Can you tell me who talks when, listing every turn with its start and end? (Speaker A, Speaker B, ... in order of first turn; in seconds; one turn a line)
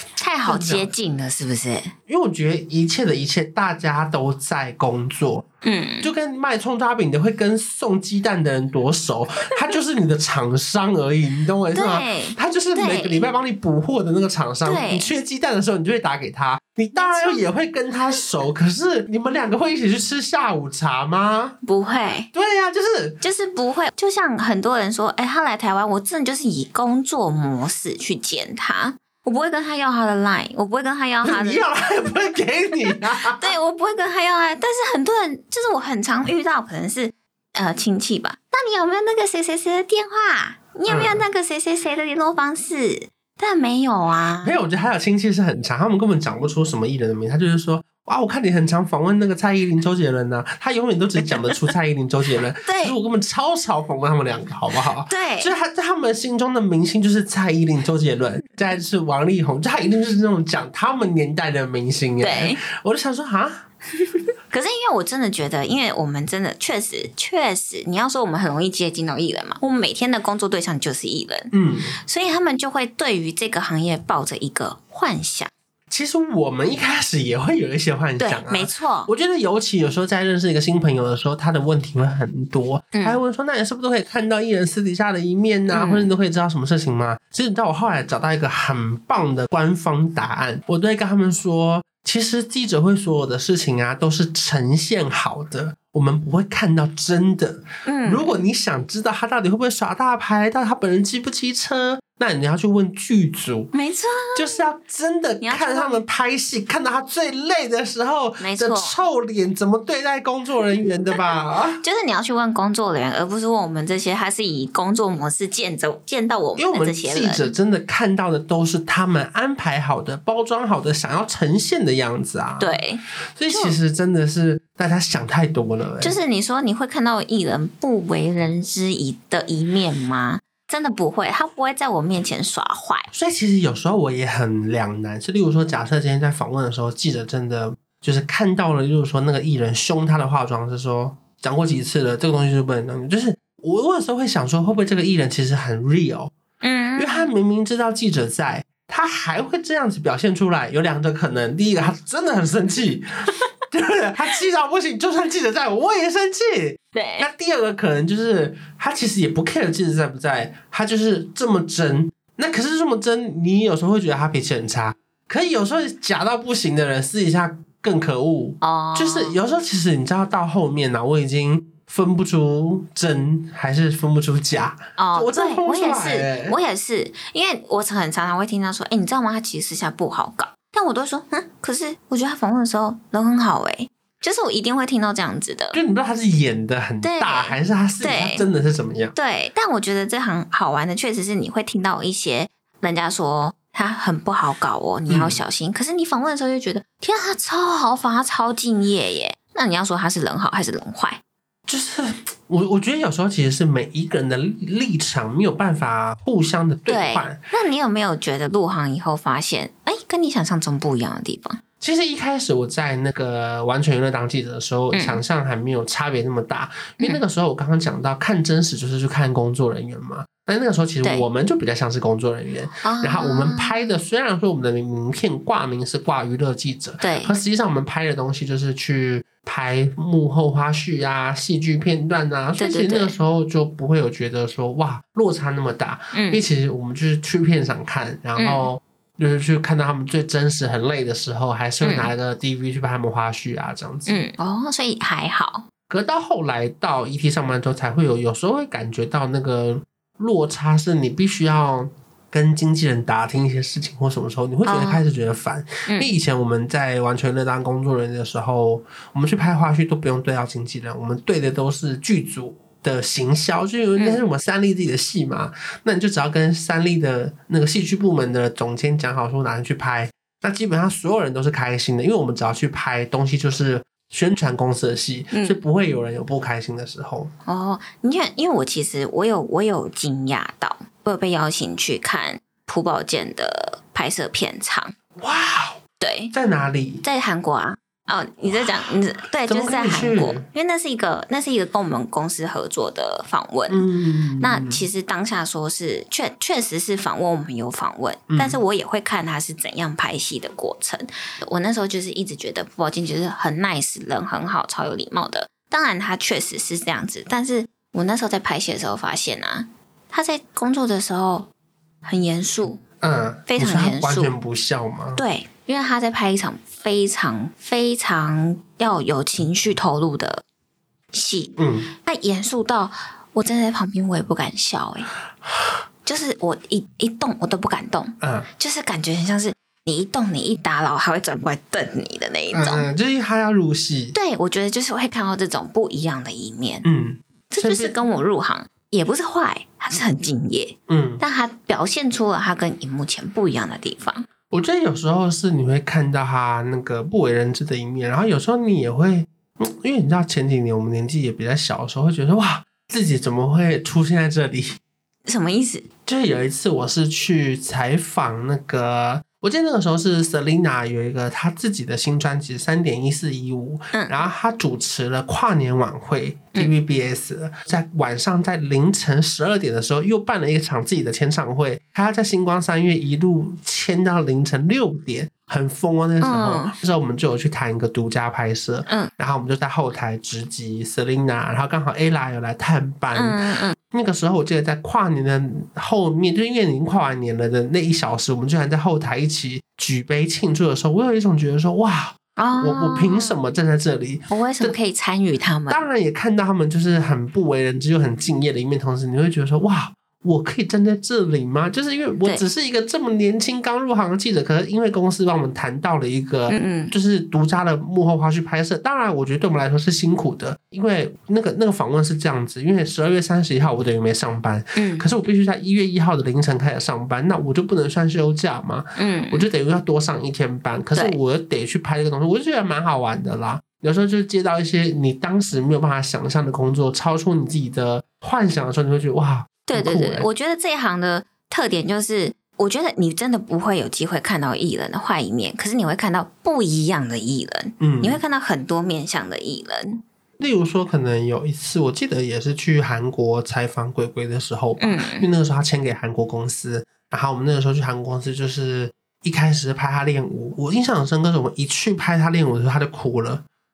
Speaker A: 0.2-1.9
Speaker B: 0.4-0.9
Speaker B: 2.1-5.5
Speaker A: 5.6-6.1
Speaker B: 6.0-21.6
Speaker A: 11.7-13.3
Speaker A: 14.6-15.1
Speaker A: 16.9-17.4
Speaker A: 21.6-22.3
Speaker B: 22.3-23.2
Speaker A: 23.2-32.1
Speaker B: 31.2-33.5
Speaker A: 32.9-44.5
Speaker B: 40.9-41.2
Speaker B: 44.4-63.6
Speaker A: 52.6-53.0
Speaker A: 55.1-55.5
Speaker A: 62.2-62.6
Speaker A: 64.0-75.5
Speaker B: 71.5-72.0
Speaker B: 75.9-103.7
Speaker A: 78.2-79.1
Speaker A: 82.9-83.2
Speaker A: 85.7-86.1
Speaker A: 97.8-98.3
Speaker A: 103.7-104.5
Speaker B: 104.3-111.8
Speaker A: 105.4-106.0
Speaker A: 108.4-109.0
Speaker A: 111.8-117.5
Speaker B: 116.6-122.8
Speaker A: 122.6-123.8
Speaker B: 123.4-126.2
Speaker A: 126.0-133.1
Speaker B: 133.1-146.3
Speaker A: 146.6-147.3
Speaker B: 147.0-153.1
Speaker B: 153.7-176.6
Speaker A: 156.9-157.3
Speaker A: 168.6-169.4
Speaker A: 175.0-185.8
Speaker B: 185.7-189.1
Speaker A: 187.0-188.4
Speaker A: 189.1-201.2
Speaker B: 195.1-195.4
Speaker B: 201.7-207.4
Speaker A: 206.9-211.6
Speaker B: 211.8-244.2
Speaker A: 214.9-215.2
Speaker A: 221.0-221.3
Speaker A: 222.8-223.9
Speaker A: 227.0-227.3
Speaker A: 232.6-233.1
Speaker A: 236.1-236.4
Speaker A: 238.4-238.7
Speaker A: 241.8-242.1
Speaker A: 244.1-245.7
Speaker B: 245.9-277.3
Speaker A: 254.6-255.0
Speaker A: 275.3-275.6
Speaker A: 277.4-284.9
Speaker B: 285.2-285.8
Speaker A: 286.0-286.3
Speaker B: 286.3-287.0
Speaker A: 287.0-293.9
Speaker B: 289.4-290.4
Speaker B: 293.7-294.8
Speaker A: 294.4-311.5
Speaker B: 298.3-298.6
Speaker A: 312.0-312.8
Speaker B: 313.0-315.2
Speaker A: 313.5-314.3
Speaker A: 315.1-320.4
Speaker A: 321.1-325.1
Speaker B: 321.6-321.9
Speaker A: 326.1-332.9
Speaker B: 328.2-328.5
Speaker B: 332.5-334.1
Speaker A: 334.1-336.9
Speaker B: 336.8-337.9
Speaker A: 337.5-344.2
Speaker B: 340.9-341.2
Speaker B: 344.5-354.8
Speaker A: 355.2-355.9
Speaker B: 356.1-383.4
Speaker A: 376.2-376.8
Speaker A: 383.1-383.8
Speaker B: 383.9-394.8
Speaker A: 392.4-393.3
Speaker A: 394.3-395.8
Speaker B: 395.7-430.3
Speaker A: 406.5-406.9
Speaker A: 414.7-415.1
Speaker A: 419.0-419.4
Speaker A: 429.7-440.0
Speaker B: 437.8-438.2
Speaker B: 440.4-453.4
Speaker A: 444.8-445.3